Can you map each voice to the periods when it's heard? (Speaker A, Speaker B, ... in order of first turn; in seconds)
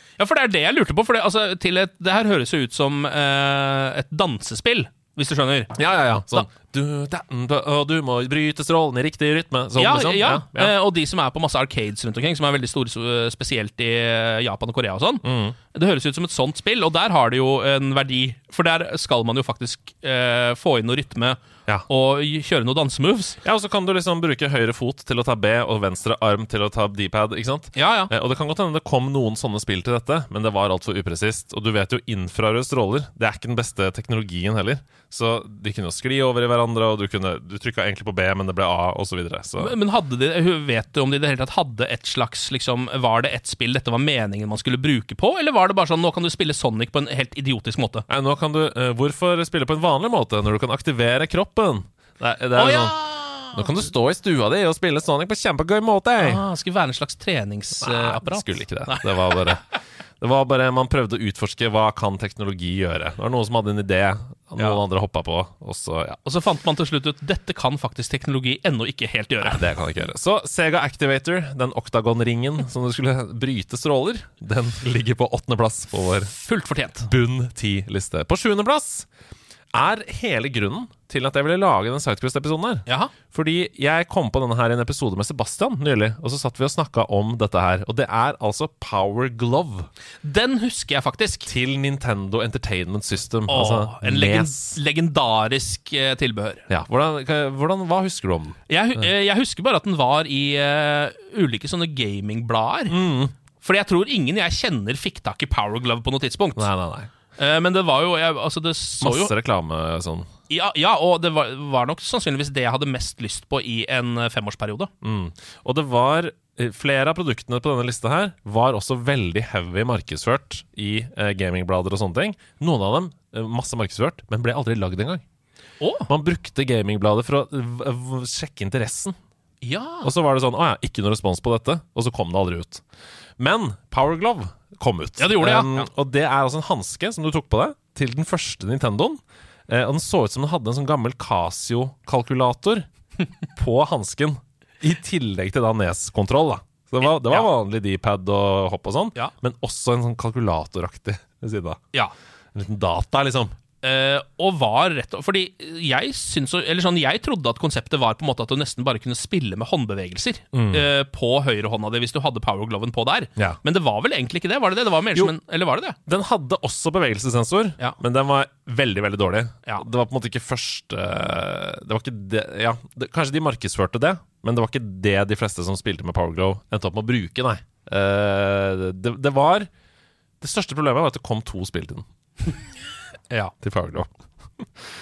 Speaker A: 0.2-5.8, 9.8-23.4, 27.8-28.1, 39.6-48.0, 52.6-53.7, 56.2-59.5, 66.2-69.7, 76.4-77.1, 82.9-83.1, 90.2-91.5, 93.5-96.7, 98.7-103.0, 103.6-106.7, 107.4-109.3, 110.5-114.9, 125.8-126.1, 129.6-130.1, 135.2-135.9, 147.0-147.5, 153.8-166.0
Speaker B: 5.8-10.7, 15.2-15.6, 23.4-39.8, 48.1-56.4, 57.8-59.6, 60.2-66.2, 69.4-76.3, 77.0-79.1, 79.7-89.9, 91.5-94.8, 96.7-98.6, 102.9-103.3, 106.6-107.1, 109.0-110.3, 115.0-125.2, 126.1-129.2, 130.0-132.8, 133.4-142.9, 143.5-151.8, 152.5-153.5, 160.5-160.9, 166.1-179.7, 180.4-182.1, 183.6-184.7